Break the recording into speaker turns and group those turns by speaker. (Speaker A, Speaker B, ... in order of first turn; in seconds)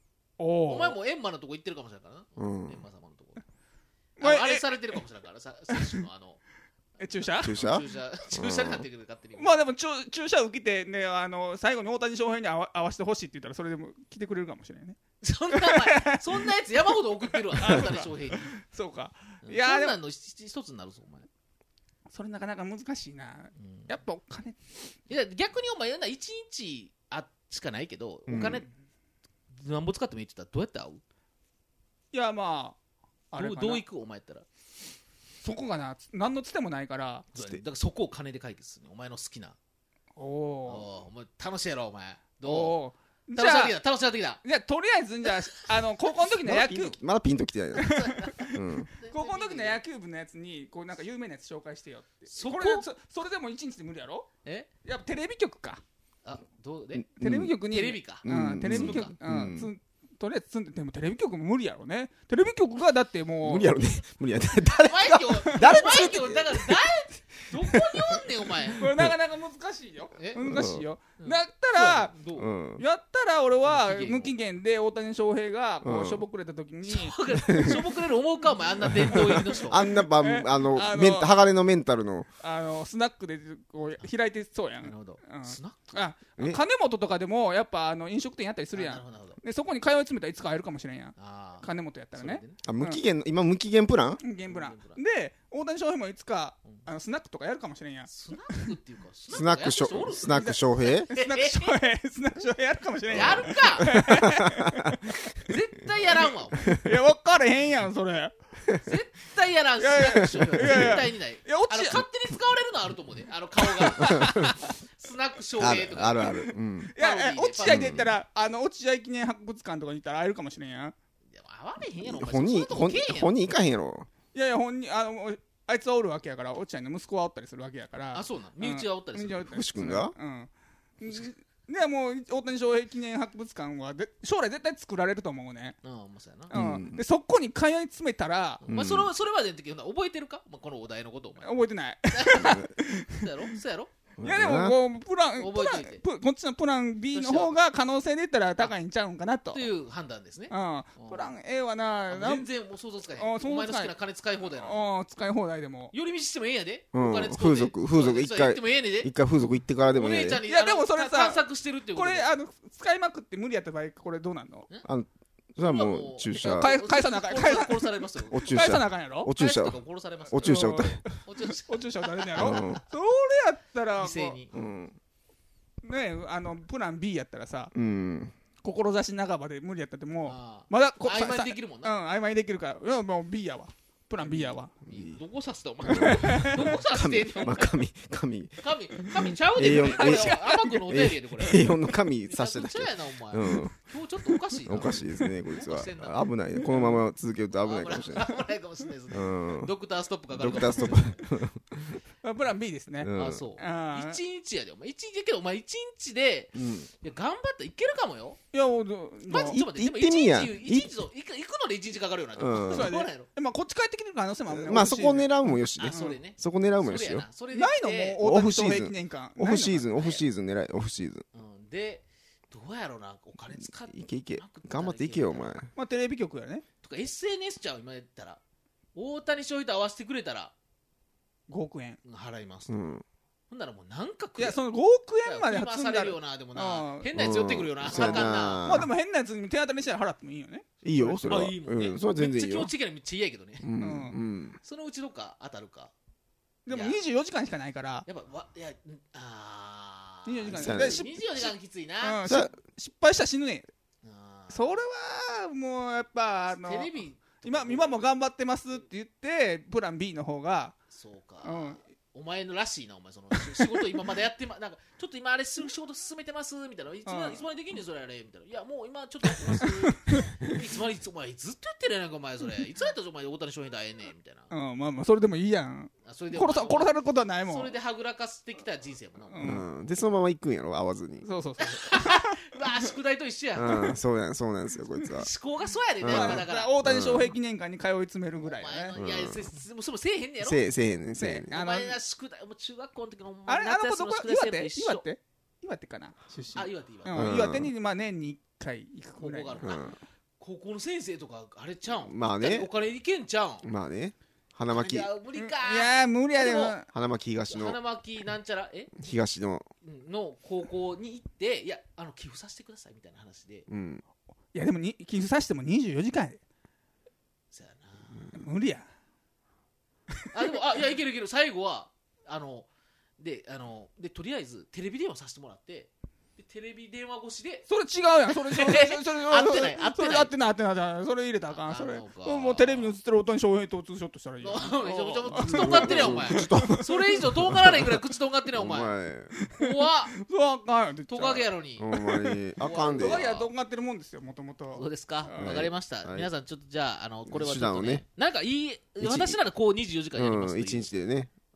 Speaker A: 0.4-1.0, 4.2-5.0, 5.7-6.0, 7.0-7.6, 9.4-15.0, 15.5-16.5, 17.4-20.0, 22.1-24.6, 32.1-32.8, 33.3-33.8, 35.4-37.3, 40.2-40.9, 42.4-43.8, 44.4-47.0, 47.8-48.6, 49.1-54.3, 54.8-55.8, 57.2-63.8, 65.5-65.8, 68.8-72.1, 72.8-77.8, 79.1-81.4, 82.4-93.0, 94.2-98.1, 100.3-105.2, 106.7-108.3, 109.8-112.0, 113.6-114.6, 116.3-120.9, 124.3-135.8, 136.5-138.6, 141.4-143.2, 144.2-149.7, 150.5-152.5, 153.1-153.9, 154.5-155.9, 160.5-164.7, 166.4-169.3, 170.3-174.4, 175.8-177.7, 178.6-184.7, 185.9-186.8, 189.7-190.8, 196.7-197.0, 202.2-204.2, 208.5-209.6, 212.6-215.3, 215.9-216.2, 217.5-219.9, 225.8-226.6, 231.5-232.0, 234.4-237.1, 237.9-241.5, 243.8-244.2, 246.7-248.1, 250.2-253.7, 254.5-256.9, 257.4-260.8, 261.4-261.8, 267.1-267.4, 269.5-270.4, 274.5-277.7, 279.3-279.6, 281.2-282.4, 283.6-284.0, 286.1-288.9, 291.1-292.0, 293.5-299.8, 305.3-306.9, 314.5-316.4, 318.3-318.9, 327.7-337.1, 339.3-342.4, 343.0-345.6
Speaker B: 0.7-3.4, 4.2-6.4, 7.2-9.6, 15.2-18.5, 19.4-21.3, 23.6-23.9, 25.1-28.7, 29.5-31.0, 33.3-34.5, 37.4-39.6, 40.7-42.8, 43.4-44.4, 47.8-49.8, 52.3-52.9, 56.2-57.1, 57.7-59.1, 64.6-68.9, 70.2-70.5, 71.2-72.5, 73.7-74.3, 76.8-79.9, 84.8-85.8, 88.7-89.4, 91.2-92.6, 94.5-95.0, 98.1-101.8, 103.1-103.9, 105.5-106.6, 108.8-116.4, 117.0-117.9, 121.3-123.3, 128.1-129.5, 135.8-136.6, 138.6-141.6, 142.1-142.6, 143.2-143.9, 145.4-146.0, 147.1-147.6, 149.5-151.3, 152.1-154.9, 155.9-159.1, 159.9-162.3, 165.6-168.4, 169.3-170.7, 171.2-172.8, 174.0-174.5, 180.2-181.9, 184.2-187.8, 188.6-196.3, 197.6-201.2, 203.1-208.4, 209.3-213.3, 215.8-218.2, 219.9-220.3, 221.3-225.6, 226.8-228.4, 228.9-230.5, 232.0-232.7, 233.5-234.6, 235.2-238.7, 241.3-243.7, 244.6-245.9, 246.7-247.0, 248.1-252.2, 254.0-254.8, 256.5-258.1, 260.9-274.5, 276.1-279.6, 281.6-283.8, 285.1-286.8, 288.4-290.7, 291.5-295.1, 296.5-297.4, 299.2-303.7, 304.7-306.8, 307.5-308.9, 309.8-313.7, 317.5-318.3, 320.3-327.7, 328.3-330.4, 331.6-333.0, 334.4-338.9, 339.6-340.2, 341.1-341.9, 342.6-343.5, 344.7-350.9
Speaker C: 2.4-2.8, 7.4-8.8, 28.3-28.6, 37.4-37.6, 46.5-48.0, 48.5-48.9, 57.0-57.6, 58.2-59.7, 63.4-66.8, 68.8-69.2, 70.4-70.8, 72.4-72.8, 75.8-76.3, 77.4-78.0, 78.8-82.3, 92.7-94.2, 99.3-101.1, 103.1-104.1, 106.6-107.0, 110.4-111.0, 114.0-114.5, 115.6-116.9, 117.6-118.2, 122.0-124.1, 129.4-130.1, 136.5-137.1, 138.7-139.1, 142.4-142.7, 144.2-144.8, 156.9-160.4, 164.8-166.8, 168.3-171.0, 172.4-172.8, 174.5-175.0, 177.7-178.3, 184.9-185.2, 185.8-188.6, 189.5-193.9, 194.6-198.3, 199.1-199.7, 200.3-202.0, 203.0-203.5, 206.6-206.9, 209.3-210.9, 212.3-212.9, 214.5-217.3, 218.2-221.2, 223.8-225.7, 232.7-233.0, 237.1-238.9, 240.8-242.7, 243.6-244.6, 250.5-251.1, 252.2-252.5, 279.4-281.3, 283.6-285.3, 286.0-287.4, 288.9-289.6, 290.4-291.5, 297.1-297.7, 299.6-299.9, 301.9-302.7, 303.6-305.1, 306.9-307.8, 309.0-309.7, 313.7-314.0, 335.3-337.9, 338.5-339.3, 341.8-343.3, 345.4-346.3, 347.3-348.1, 349.0-349.4, 350.1-351.3